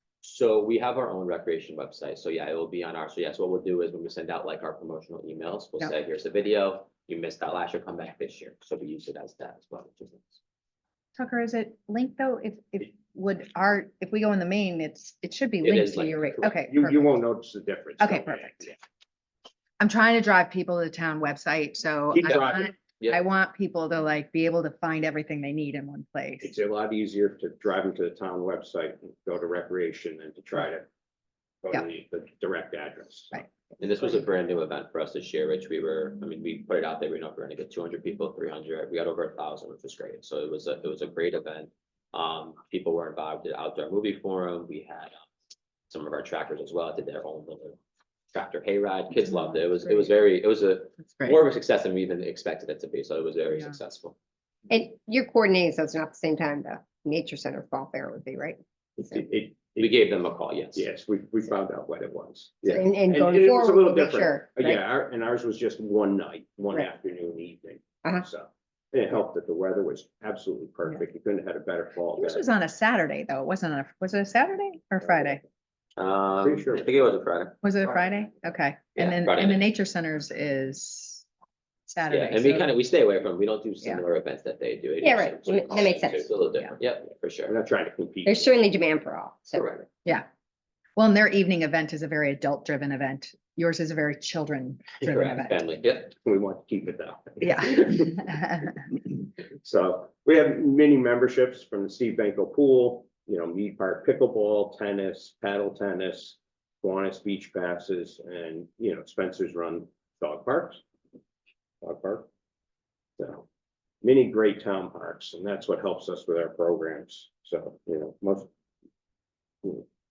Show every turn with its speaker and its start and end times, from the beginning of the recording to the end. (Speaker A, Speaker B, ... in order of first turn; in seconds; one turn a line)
Speaker A: 0.2-10.4
Speaker B: 11.2-17.1
Speaker A: 15.6-16.6
Speaker C: 16.7-18.8
Speaker B: 18.0-18.6
Speaker B: 19.8-26.6
Speaker C: 22.2-22.6
Speaker A: 22.2-23.2
Speaker C: 26.4-30.9
Speaker C: 31.6-33.5
Speaker A: 33.8-45.2
Speaker A: 45.9-47.8
Speaker A: 48.3-54.2
Speaker B: 49.3-50.1
Speaker B: 51.0-51.4
Speaker D: 54.7-58.6
Speaker C: 59.0-59.9
Speaker A: 59.8-60.9
Speaker C: 60.8-72.5
Speaker D: 62.7-64.8
Speaker B: 72.2-75.4
Speaker A: 76.0-77.6
Speaker C: 76.4-76.9
Speaker B: 77.6-81.3
Speaker A: 79.0-79.6
Speaker B: 81.9-82.7
Speaker A: 82.1-87.5
Speaker D: 85.0-86.3
Speaker C: 87.5-88.6
Speaker D: 88.2-89.7
Speaker A: 89.5-89.9
Speaker B: 91.0-95.6
Speaker A: 95.0-96.2
Speaker C: 96.2-98.3
Speaker B: 97.4-98.8
Speaker C: 99.6-110.8
Speaker C: 111.8-112.3
Speaker C: 113.2-113.5
Speaker C: 114.0-118.5